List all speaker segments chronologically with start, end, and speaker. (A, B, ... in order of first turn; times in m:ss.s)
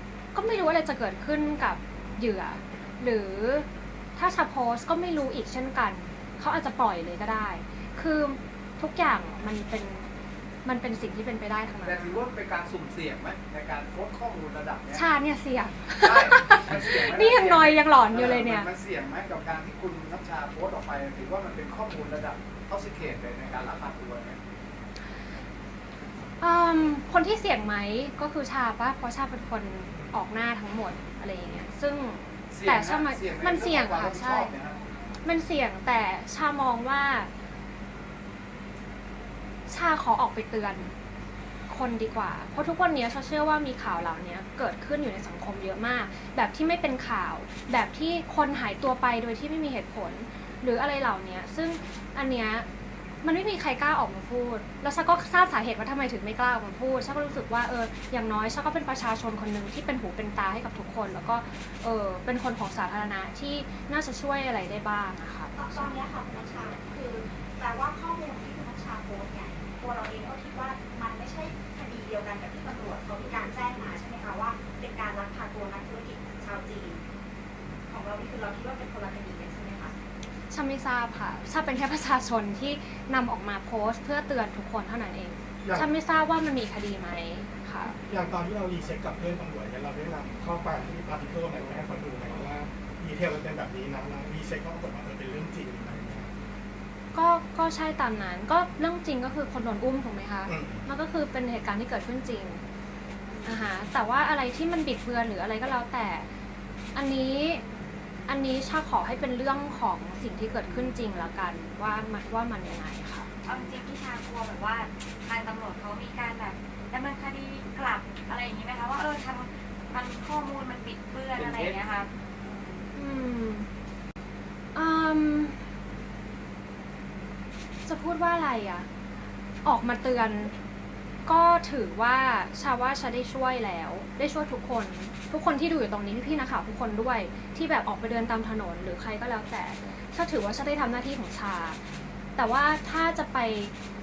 0:00.3-0:10.1 A
0:10.6-0:12.2 A
0:11.8-0:15.0 B
0:14.9-0:18.7 A
0:16.0-0:24.4 B
0:26.4-0:34.5 A
0:32.5-0:34.8 B
0:35.2-0:37.3 A
0:39.7-0:40.9 A
0:41.7-0:52.6 A
0:53.2-1:06.0 A
1:05.6-1:17.0 C
1:17.9-1:19.9 C
1:20.5-1:28.0 A
1:25.6-1:25.9 D
1:28.0-1:36.3 D
1:37.1-1:42.6 A
1:40.5-1:40.9 D
1:43.4-1:46.3 A
1:46.9-1:47.6 A
1:48.3-1:53.3 A
1:53.4-2:02.1 E
2:01.4-2:01.8 B
2:02.9-2:03.7 A
2:04.7-2:05.7 A
2:07.8-2:08.9 A
2:09.6-2:10.5 A
2:11.2-2:21.8 A
2:22.4-2:23.7 A